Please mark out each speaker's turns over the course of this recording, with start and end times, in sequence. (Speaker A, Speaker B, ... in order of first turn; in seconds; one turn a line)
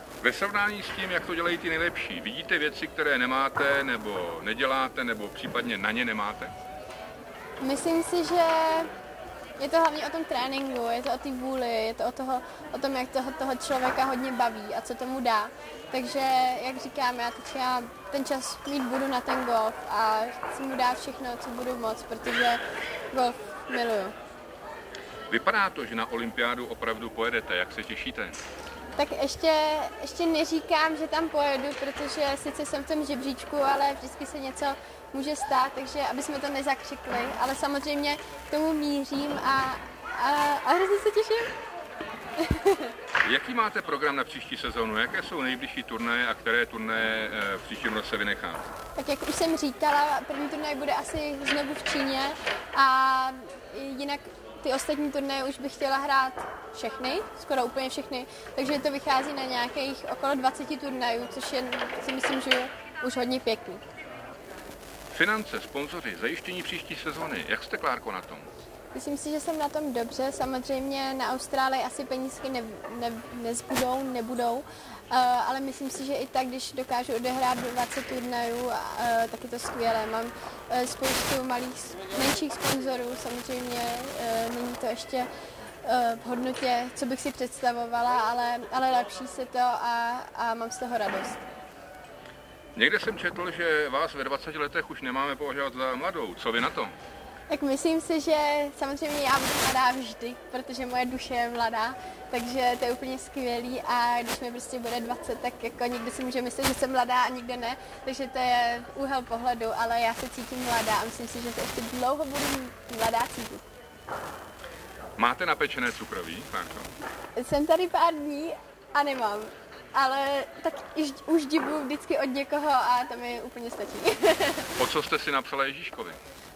Speaker A: 0.2-6.5
Speaker B: 7.6-8.9
Speaker B: 9.6-24.1
Speaker A: 25.3-28.4
Speaker B: 28.9-41.5
Speaker B: 42.4-42.9
Speaker A: 43.2-48.7
Speaker B: 49.0-63.8
Speaker A: 65.1-68.5
Speaker B: 68.9-85.3
Speaker B: 85.8-91.4
Speaker A: 92.7-96.9
Speaker B: 97.5-113.6
Speaker A: 115.2-116.9
Speaker B: 117.3-124.7
Speaker A: 124.8-126.2